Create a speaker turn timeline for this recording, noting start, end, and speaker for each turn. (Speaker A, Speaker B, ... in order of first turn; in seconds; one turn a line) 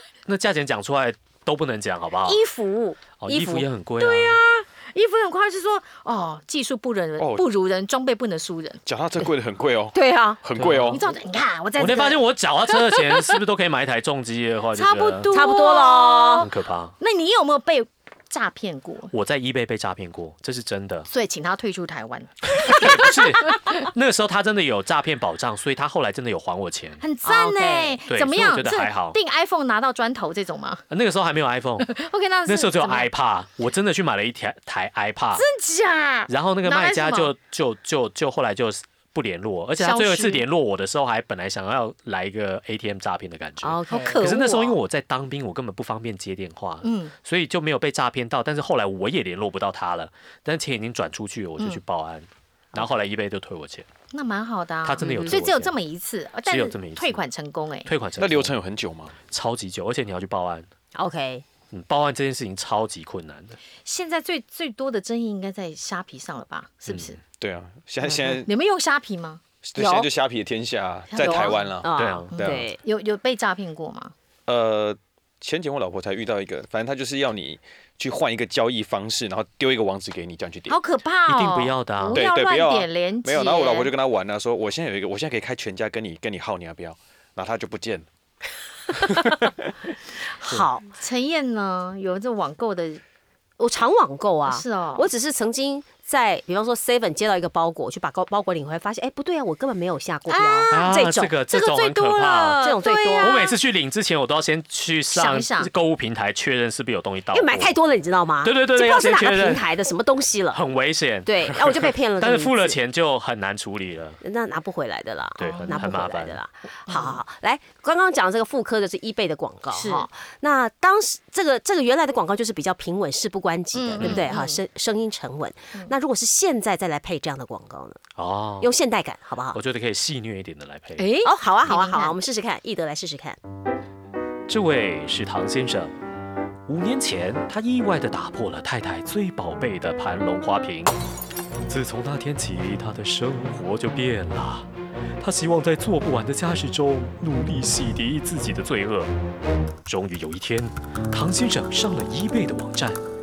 Speaker A: 0.2-2.4
Speaker B: 2.2-3.0
Speaker A: 3.2-4.4
Speaker C: 3.2-3.7
Speaker B: 4.0-8.8
Speaker D: 7.2-7.4
Speaker D: 8.8-11.1
Speaker C: 9.9-10.4
Speaker A: 10.5-11.0
Speaker B: 10.9-13.2
Speaker A: 11.8-15.4
Speaker B: 14.7-16.5
Speaker C: 15.3-16.4
Speaker A: 16.4-16.9
Speaker B: 17.0-19.1
Speaker A: 19.1-21.1
Speaker B: 21.1-23.8
Speaker A: 22.6-27.0
Speaker B: 27.0-30.8
Speaker C: 27.2-28.0
Speaker A: 28.1-29.2
Speaker A: 30.9-31.9
Speaker B: 31.8-33.1
Speaker A: 32.4-35.4
Speaker B: 35.3-37.3
Speaker A: 36.3-53.9
Speaker B: 39.8-40.5
Speaker C: 43.6-44.2
Speaker B: 43.9-44.8
Speaker B: 46.8-47.1
Speaker B: 54.1-57.9
Speaker A: 54.8-55.7
Speaker C: 55.0-55.4
Speaker A: 56.5-57.2
Speaker A: 57.8-58.5
Speaker D: 58.2-59.1
Speaker A: 59.3-60.7
Speaker C: 60.9-61.5
Speaker A: 61.7-63.6
Speaker B: 63.8-67.2
Speaker A: 66.9-67.1
Speaker D: 67.4-68.5
Speaker B: 68.4-69.4
Speaker D: 69.6-72.7
Speaker C: 69.8-70.1
Speaker B: 71.1-71.6
Speaker C: 71.2-72.8
Speaker A: 72.0-72.6
Speaker B: 72.4-74.1
Speaker D: 74.5-80.8
Speaker B: 80.7-83.9
Speaker A: 81.3-82.2
Speaker D: 82.1-88.1
Speaker D: 88.9-89.5
Speaker C: 90.3-90.9
Speaker B: 90.9-93.0
Speaker C: 93.6-101.5
Speaker B: 94.5-95.1
Speaker B: 100.3-100.8
Speaker A: 100.7-107.8
Speaker B: 101.5-103.5
Speaker C: 102.6-103.4
Speaker B: 105.1-105.7
Speaker C: 107.3-110.6
Speaker A: 108.4-109.7
Speaker A: 110.5-114.2
Speaker C: 111.2-112.8
Speaker C: 114.2-128.0
Speaker A: 115.4-116.4
Speaker B: 115.4-115.9
Speaker B: 116.9-117.2
Speaker B: 119.7-120.1
Speaker B: 123.7-124.6
Speaker A: 124.0-124.3
Speaker A: 128.2-128.7
Speaker C: 128.6-129.6
Speaker A: 129.5-131.1
Speaker B: 131.0-132.1
Speaker C: 131.2-133.4
Speaker A: 134.5-135.9
Speaker A: 136.7-141.0
Speaker A: 141.7-144.7
Speaker A: 145.2-149.1
Speaker A: 149.8-153.0